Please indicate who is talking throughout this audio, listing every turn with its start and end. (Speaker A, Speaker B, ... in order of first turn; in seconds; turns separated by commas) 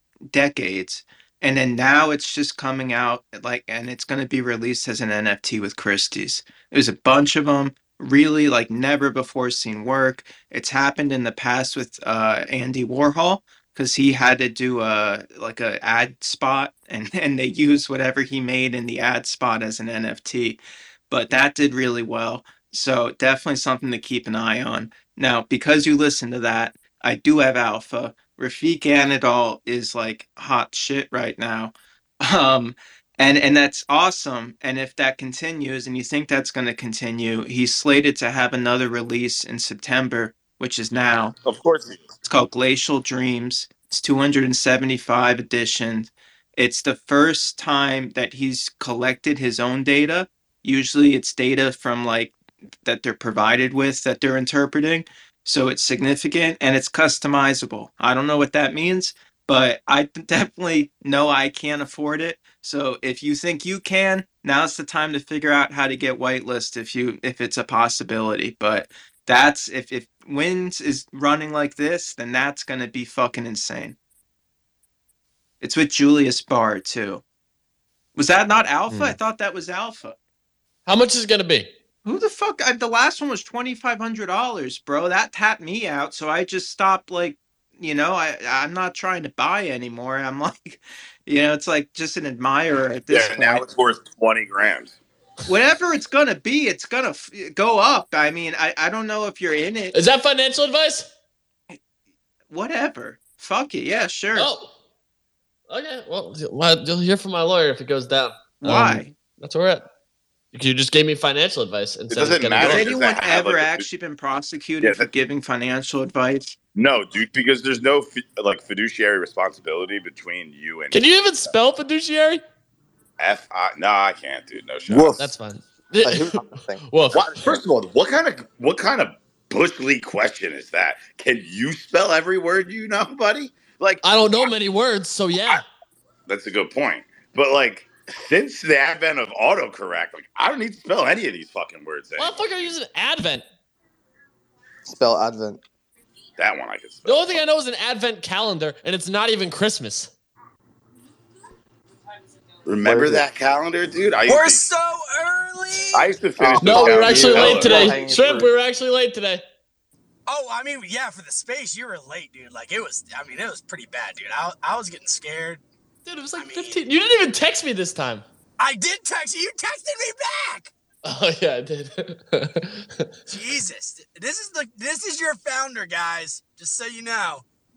Speaker A: 0.3-41.3, Speaker B: 41.4-42.0, Speaker A: 42.2-74.0, Speaker A: 75.6-77.2, Speaker A: 78.1-80.2, Speaker C: 78.9-79.2, Speaker C: 80.8-81.7, Speaker A: 82.0-93.7, Speaker B: 93.1-94.9, Speaker A: 95.5-100.0, Speaker C: 99.9-101.1, Speaker A: 102.5-104.5, Speaker C: 104.3-104.7, Speaker C: 105.7-109.8, Speaker A: 108.6-109.1, Speaker C: 110.5-112.9, Speaker B: 112.1-113.9, Speaker A: 112.6-116.6, Speaker B: 114.8-115.1, Speaker B: 116.7-121.0, Speaker C: 120.9-122.4, Speaker B: 123.2-125.3, Speaker C: 125.2-127.6, Speaker D: 126.0-126.8, Speaker B: 127.1-134.5, Speaker C: 134.0-135.6, Speaker B: 136.3-142.4, Speaker C: 142.2-143.4, Speaker D: 144.8-145.6, Speaker B: 146.4-147.3, Speaker C: 147.0-150.1, Speaker B: 152.7-154.6, Speaker D: 152.8-153.2, Speaker E: 154.3-156.1, Speaker B: 155.9-158.0, Speaker D: 156.4-158.5, Speaker C: 156.6-159.4, Speaker E: 160.3-165.6, Speaker C: 166.0-168.2, Speaker E: 166.3-166.8, Speaker E: 168.6-170.7, Speaker C: 171.0-173.1, Speaker E: 173.3-177.4